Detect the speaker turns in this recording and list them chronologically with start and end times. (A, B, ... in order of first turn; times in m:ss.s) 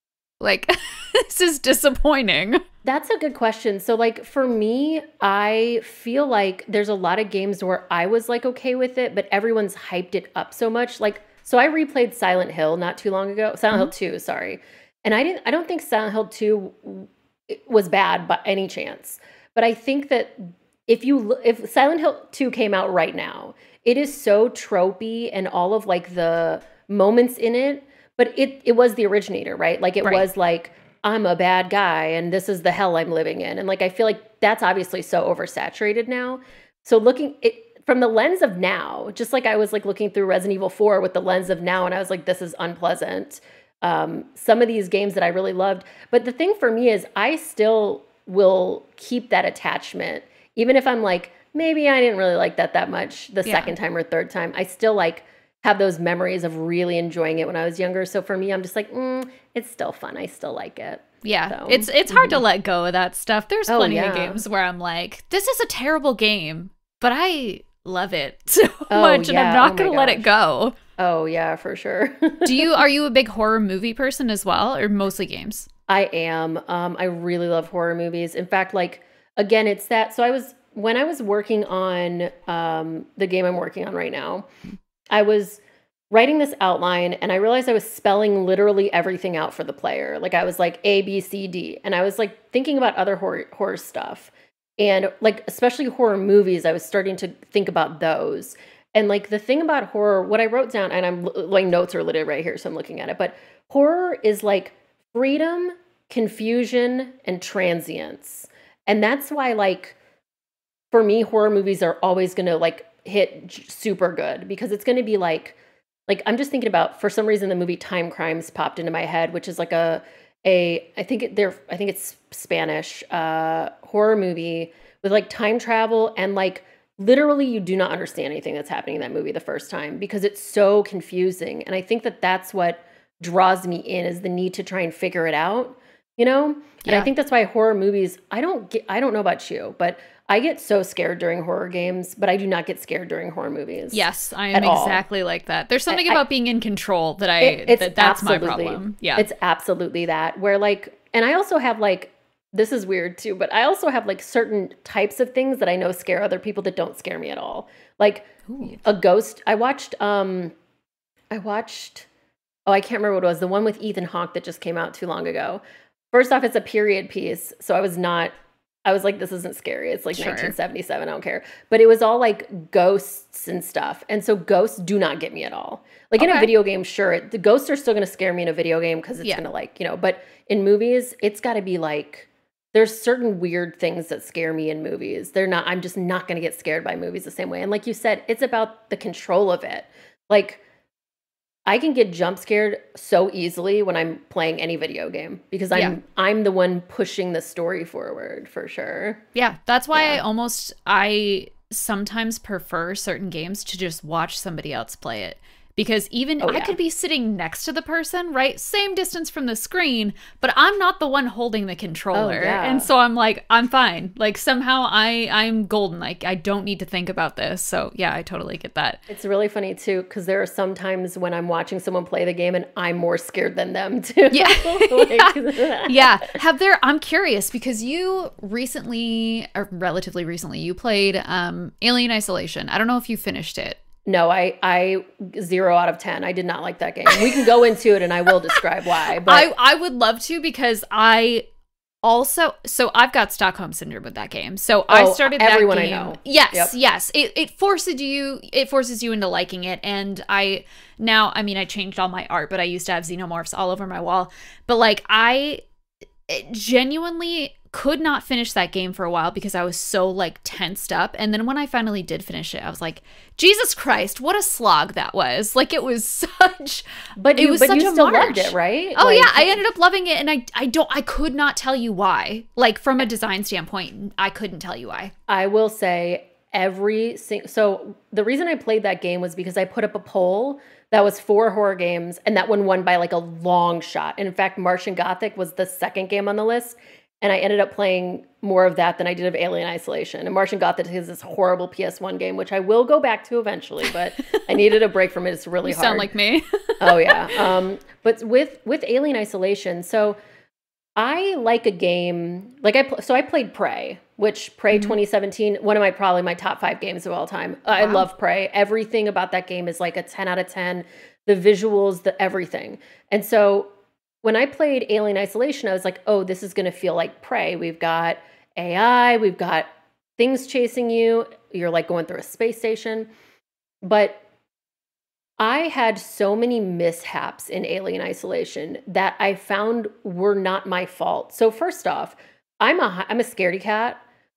0:00.4-0:02.6 A
0:02.8-1:02.4 B
0:53.4-0:53.7 A
1:01.2-1:10.8 A
1:03.7-1:04.4 B
1:08.9-1:10.3 B
1:11.0-1:12.8 B
1:12.4-1:15.7 A
1:15.9-1:24.5 B
1:25.1-1:50.0 B
1:50.9-1:55.6 B
1:56.1-2:25.0 B
2:16.8-2:17.1 A
2:23.9-2:29.3 A
2:25.9-2:26.2 B
2:27.4-2:40.5 B
2:38.5-2:38.8 A
2:41.3-2:42.1 B
2:42.7-3:10.6 B
2:50.1-2:50.5 A
2:56.2-2:56.5 A
3:11.6-3:19.2 B
3:19.4-3:39.0 A
3:19.9-3:20.2 B
3:26.4-3:26.8 B
3:32.1-3:32.9 B
3:39.1-3:46.4 B
3:44.3-3:53.8 A
3:54.1-3:59.5 B
3:59.2-4:01.5 A
4:02.0-4:15.6 A
4:04.9-4:06.7 B
4:16.3-4:26.8 A
4:27.2-4:29.6 B
4:27.4-4:35.1 A
4:35.3-4:56.1 B
4:55.6-4:57.5 A
4:56.8-5:00.2 B
5:01.0-5:13.7 B
5:07.8-5:08.0 A
5:14.2-5:19.6 B
5:20.2-5:23.1 B
5:23.8-5:24.2 B
5:25.4-5:34.0 B